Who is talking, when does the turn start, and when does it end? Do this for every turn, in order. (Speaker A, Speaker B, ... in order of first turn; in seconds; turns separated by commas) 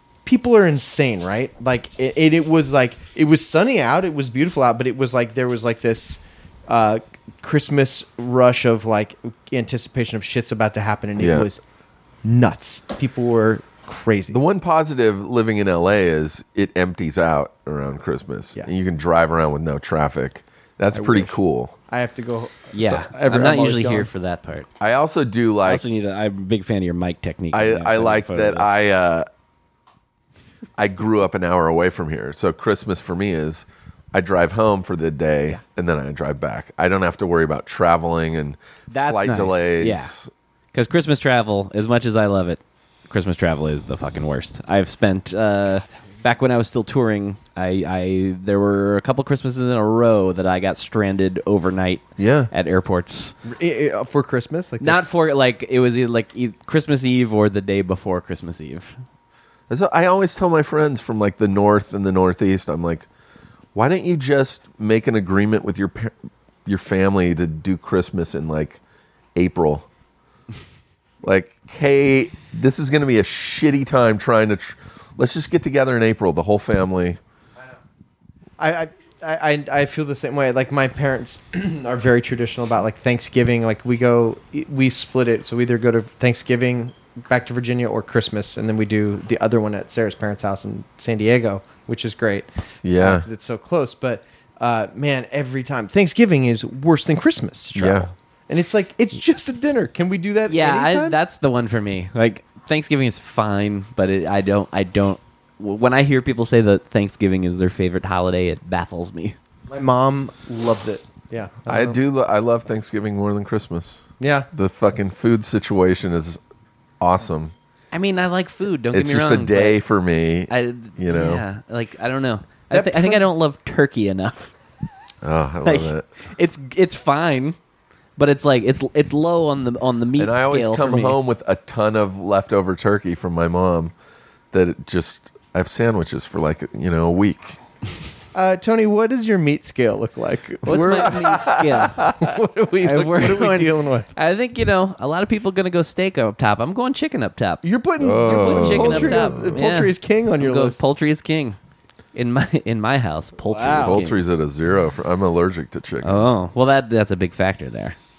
Speaker A: 0.2-11.6, Speaker B: 11.2-11.5, Speaker A: 12.2-14.4, Speaker B: 14.3-21.7, Speaker A: 20.9-21.3, Speaker A: 21.9-24.1, Speaker C: 22.7-24.7, Speaker B: 24.8-25.8, Speaker C: 25.6-28.7, Speaker B: 27.5-29.3, Speaker B: 30.8-40.3, Speaker C: 38.9-40.1, Speaker C: 40.7-53.3, Speaker B: 52.2-52.5, Speaker A: 53.4-55.0, Speaker C: 54.8-59.0, Speaker B: 59.7-63.1, Speaker B: 63.7-66.1, Speaker B: 66.7-68.8, Speaker B: 69.3-69.9, Speaker B: 71.2-77.2, Speaker A: 78.6-101.2, Speaker B: 92.8-93.3, Speaker B: 97.7-98.1, Speaker C: 100.5-109.3, Speaker A: 109.7-112.0, Speaker B: 111.7-116.4, Speaker A: 114.2-114.5, Speaker B: 117.0-117.5, Speaker C: 117.9-119.8, Speaker B: 118.9-121.4, Speaker C: 120.5-124.5, Speaker A: 122.7-123.2, Speaker B: 125.2-126.1, Speaker C: 125.6-127.5, Speaker C: 128.2-131.2, Speaker B: 130.2-133.9, Speaker B: 134.5-137.6, Speaker A: 138.3-144.1, Speaker C: 140.6-142.0, Speaker B: 141.0-142.1, Speaker C: 142.8-147.6, Speaker A: 147.6-150.8, Speaker B: 148.0-149.6, Speaker C: 148.2-151.6, Speaker C: 152.1-154.2, Speaker A: 153.5-154.0, Speaker B: 153.8-156.2, Speaker C: 156.0-157.9